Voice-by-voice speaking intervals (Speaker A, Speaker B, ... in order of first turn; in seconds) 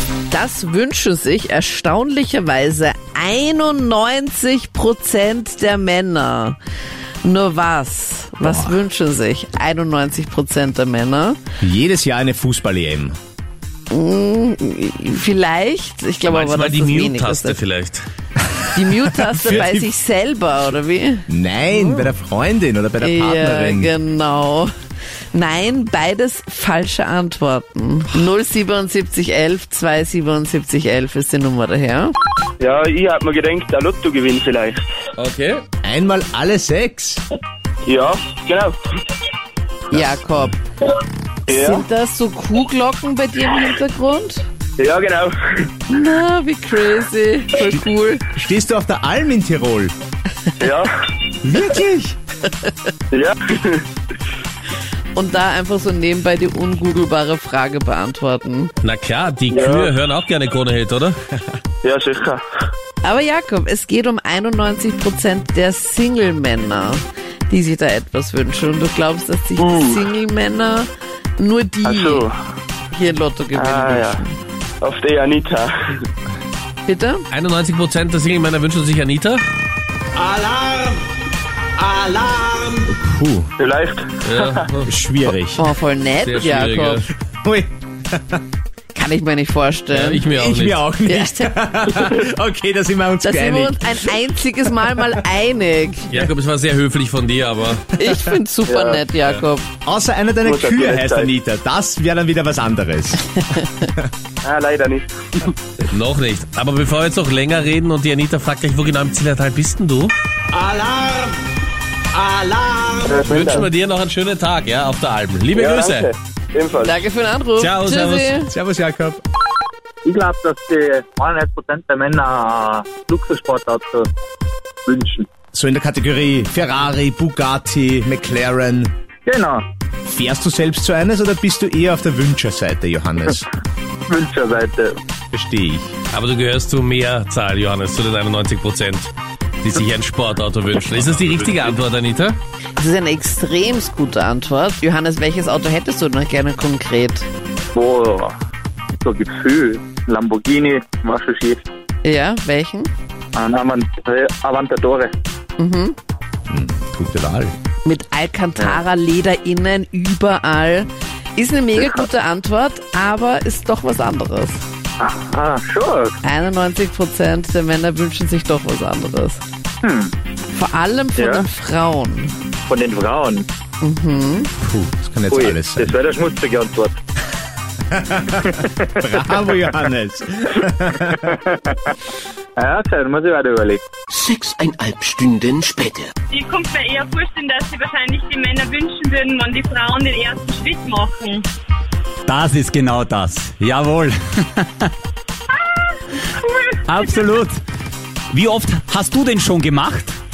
Speaker A: 0.3-6.6, 7.2-11.4, 13.9-17.6, 18.7-22.1, 23.0-24.7, 25.3-32.1, 39.9-40.6, 41.5-44.5, 45.9-48.2, 55.1-58.7, 63.0-72.3, 72.9-74.3, 76.8-77.3, 85.5-87.0, 88.9-90.2, 91.0-91.5, 93.2-96.2, 97.9-99.7, 116.8-118.5, 142.8-147.3, 152.0-152.9, 155.6-155.9, 157.8-164.6, 166.2-169.4, 170.5-172.3, 173.8-174.5
Speaker B: 8.4-8.7, 11.6-13.1, 19.1-19.9, 21.3-23.9, 35.8-37.2, 48.3-49.9, 51.4-52.1, 82.9-83.5, 84.8-85.7, 87.4-88.4, 90.3-94.1, 99.8-103.3, 110.5-111.1, 112.3-113.1, 118.5-119.2, 125.5-128.9, 130.1-133.4, 135.3-135.9, 156.5-157.5, 174.6-175.9, 177.9-181.2
Speaker C: 16.3-18.0, 35.2-35.6, 58.8-61.2, 77.3-79.4, 84.2-84.9, 86.2-87.0, 89.9-90.9, 96.1-97.9, 105.9-110.1, 113.0-116.1, 117.6-118.3, 136.1-139.1, 139.6-142.4
Speaker D: 32.6-34.8, 37.9-38.7, 41.5-41.8, 44.8-45.6, 50.6-50.9, 53.1-53.8, 59.5-59.8, 61.8-62.4, 69.6-69.8, 71.9-72.3, 73.6-74.2, 74.8-75.7, 83.6-84.0, 100.4-101.2, 104.4-105.1, 113.1-113.6, 115.5-117.0
Speaker E: 120.0-124.1, 124.8-125.2, 129.2-129.6, 134.1-134.9, 147.7-148.3, 149.0-151.7, 153.3-155.1, 165.0-166.2, 169.8-170.1, 171.2-171.4, 172.7-173.4, 175.3-176.9, 178.4-179.1, 181.2-181.8, 182.6-183.8
Speaker F: 184.1-186.1
Speaker G: 186.3-191.4, 195.5-196.8
Speaker H: 192.3-194.9, 196.9-197.6, 198.3-200.2